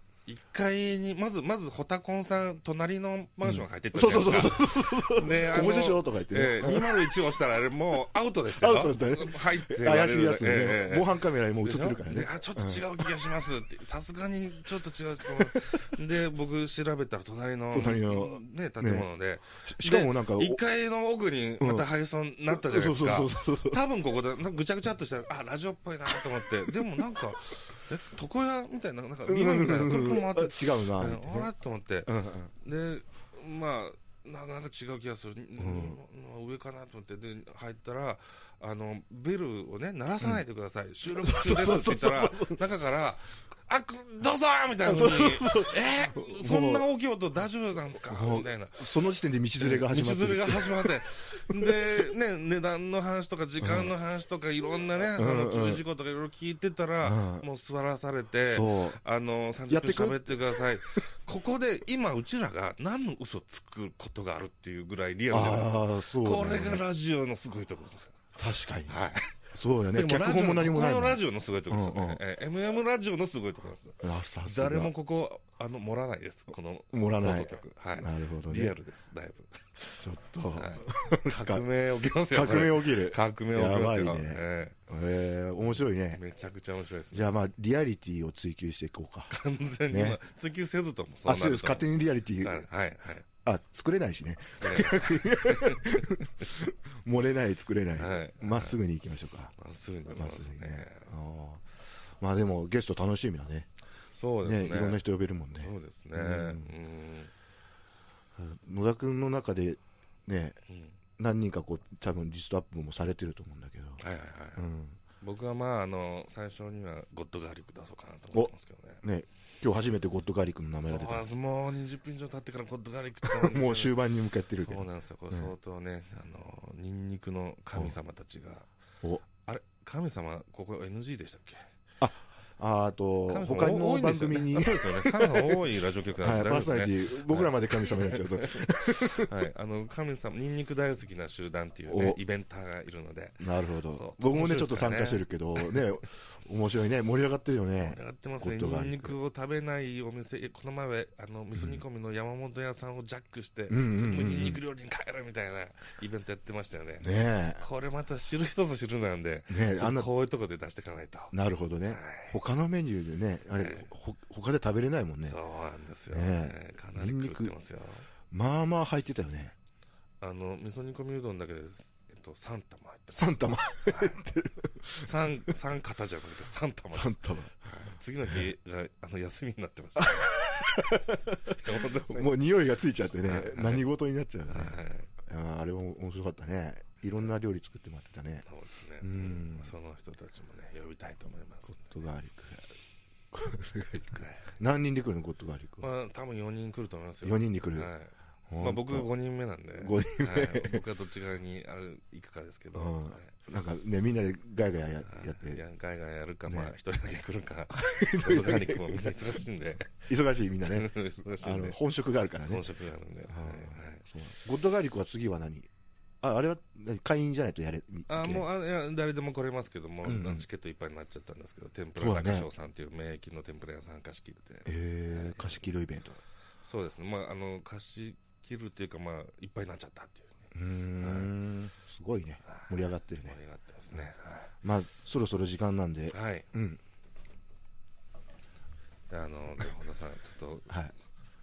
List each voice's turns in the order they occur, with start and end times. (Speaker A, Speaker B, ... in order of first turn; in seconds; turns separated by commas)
Speaker A: 0.3-48.9, Speaker B: 3.4-7.1, Speaker B: 8.6-12.9, Speaker B: 17.7-19.1, Speaker B: 19.6-20.6, Speaker B: 21.6-21.9, Speaker B: 22.5-23.8, Speaker B: 29.3-31.5, Speaker B: 32.1-32.5, Speaker B: 35.6-36.0, Speaker B: 41.1-42.6, Speaker B: 44.8-46.9, Speaker B: 48.0-52.1, Speaker A: 49.6-68.3, Speaker B: 53.6-53.9, Speaker B: 55.2-55.8, Speaker B: 57.0-57.5, Speaker B: 58.4-59.0, Speaker B: 59.7-60.6, Speaker B: 65.3-66.8, Speaker B: 68.4-69.0, Speaker A: 68.9-69.3, Speaker B: 69.5-72.2, Speaker A: 69.9-79.9, Speaker B: 74.0-74.9, Speaker B: 76.9-78.8, Speaker B: 79.9-86.2, Speaker A: 80.5-84.8, Speaker A: 86.1-87.3, Speaker B: 87.1-89.3, Speaker A: 89.3-93.3, Speaker B: 89.9-90.2, Speaker B: 91.2-92.7, Speaker B: 93.4-99.5, Speaker A: 94.6-96.2, Speaker A: 98.0-98.8, Speaker A: 99.6-101.1, Speaker B: 100.1-101.7, Speaker B: 102.2-103.7, Speaker A: 104.1-105.0, Speaker B: 104.4-106.7, Speaker A: 105.6-107.3, Speaker B: 108.4-110.6, Speaker A: 110.7-111.0, Speaker B: 111.2-114.0, Speaker A: 114.0-114.7, Speaker B: 114.6-115.0, Speaker A: 115.2-119.0, Speaker B: 118.3-121.3, Speaker A: 120.9-124.0, Speaker B: 123.2-125.5, Speaker A: 124.6-128.7, Speaker A: 129.3-131.7, Speaker B: 132.0-135.6, Speaker A: 133.3-145.8, Speaker B: 136.2-139.3, Speaker B: 141.9-142.2, Speaker B: 143.4-149.2, Speaker A: 147.8-157.1, Speaker B: 151.6-151.8, Speaker B: 153.7-154.6, Speaker B: 157.0-157.6, Speaker A: 157.6-161.3, Speaker B: 159.5-160.1, Speaker B: 161.3-165.4, Speaker A: 161.9-162.4, Speaker A: 163.6-163.9, Speaker A: 165.2-168.1, Speaker B: 166.1-167.6, Speaker B: 168.3-169.6, Speaker A: 170.2-174.2, Speaker B: 173.2-175.5, Speaker A: 174.9-182.4, Speaker B: 176.9-177.5, Speaker B: 180.0-188.5, Speaker A: 183.2-183.8, Speaker A: 184.5-185.1, Speaker A: 188.5-191.9, Speaker B: 189.0-189.7, Speaker B: 191.7-192.7, Speaker B: 193.3-195.9, Speaker A: 194.2-194.5, Speaker A: 195.8-203.3, Speaker B: 197.2-197.9, Speaker B: 198.5-199.1, Speaker B: 199.8-200.8, Speaker B: 202.7-205.6, Speaker A: 205.1-209.9, Speaker B: 206.5-206.7, Speaker B: 207.7-209.1, Speaker B: 210.1-212.6, Speaker A: 210.7-211.8, Speaker A: 212.5-214.1, Speaker B: 213.3-215.7, Speaker B: 216.2-218.5, Speaker A: 218.1-225.8, Speaker B: 220.1-220.5, Speaker B: 222.0-222.5, Speaker B: 224.7-226.2, Speaker A: 226.6-231.3, Speaker B: 230.5-233.4, Speaker A: 232.5-234.5, Speaker B: 234.6-236.8, Speaker A: 236.1-236.5, Speaker A: 239.1-240.7